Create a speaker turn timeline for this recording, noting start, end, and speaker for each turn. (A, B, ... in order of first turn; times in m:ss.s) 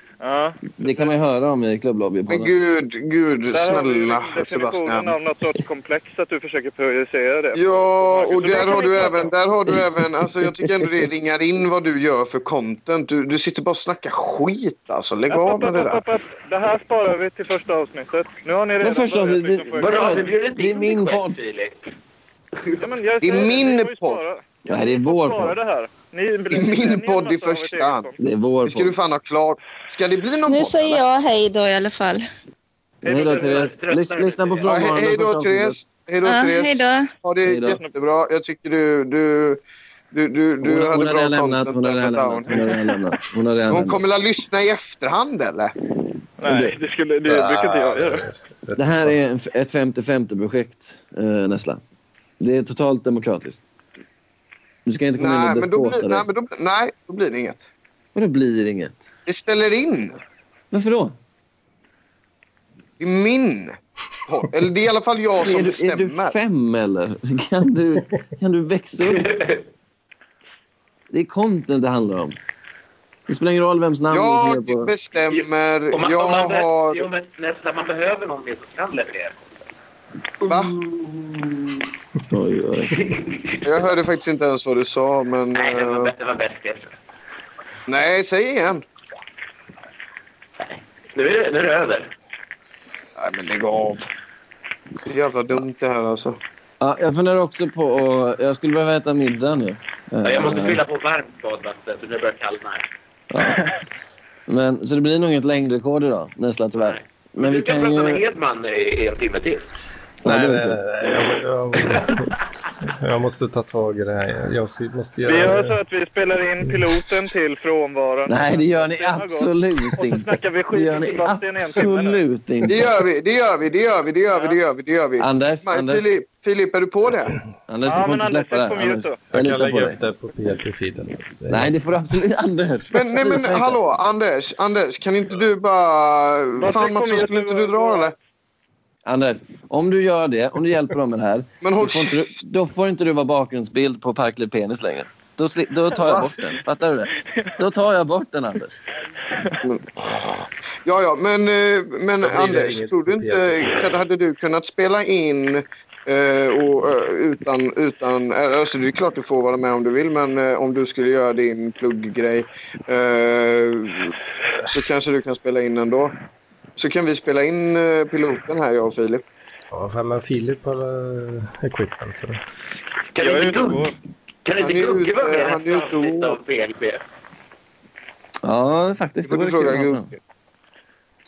0:00.2-0:01.1 A
0:00.8-0:02.5 B
0:02.3-0:05.1 C
0:03.5-0:09.3 A
0:07.5-0:16.0 C
0:09.7-0:11.0 B
0:15.3-0:20.3 A
0:18.8-0:21.4 B
0:19.8-0:21.8 D
0:22.6-0:22.8 D
0:22.8-0:28.1 A
0:23.2-0:24.2 C
0:24.6-0:25.6 B
0:26.5-0:28.1 C
0:28.2-0:28.9 B
0:28.6-0:31.0 C
0:30.5-0:32.2 E
0:33.0-0:35.8 B
0:33.0-0:34.9 D
0:33.1-0:33.7 A
0:34.7-0:39.6 C
0:36.2-0:37.1 E
0:37.4-0:37.8 B
0:40.1-0:42.7 C
0:40.6-0:44.0 B
0:43.7-0:45.7 C
0:46.4-0:48.2 A
0:46.5-0:46.8 B
0:47.3-0:49.2 F
0:48.8-0:51.8 B
0:52.4-0:53.6 B
0:54.8-0:56.2 B
0:55.2-0:57.6 C
0:58.1-0:59.1 B
0:59.3-1:00.2 C
1:00.7-1:01.1 B
1:03.0-1:06.4 C
1:05.4-1:09.3 B
1:09.0-1:09.6 D
1:11.1-1:12.4 B
1:13.3-1:14.9 B
1:14.1-1:17.1 C
1:15.3-1:19.6 D
1:20.4-1:21.8 D
1:20.5-1:20.7 C
1:22.3-1:22.9 B
1:22.9-1:24.0 D
1:23.6-1:26.1 C
1:25.5-1:27.0 D
1:27.9-1:28.8 C
1:30.6-1:32.1 D
1:33.2-1:34.1 C
1:35.0-1:36.4 C
1:36.8-1:40.8 B
1:40.2-1:42.9 D
1:43.3-1:43.7 B
1:44.5-1:48.2 B
1:46.8-1:49.7 D
1:50.2-1:52.3 F
1:50.2-1:50.8 B
1:51.8-1:52.2 D
1:52.9-1:55.8 F
1:55.2-2:02.2 A
1:58.2-2:02.9 B
2:02.7-2:07.3 C
2:05.2-2:06.0 B
2:07.7-2:10.0 B
2:07.8-2:09.2 A
2:09.3-2:11.8 F
2:11.5-2:13.8 B
2:12.9-2:18.1 C
2:16.6-2:18.1 A
2:19.0-2:28.8 B
2:21.6-2:22.3 C
2:26.0-2:26.3 A
2:29.6-2:46.1 C
2:32.2-2:33.8 F
2:46.8-2:49.2 C
2:49.7-2:52.4 F
2:53.1-2:53.9 D
2:53.2-2:53.9 A
2:54.4-2:57.0 D
2:54.6-2:56.4 C
2:58.4-3:00.1 B
2:59.2-3:00.2 C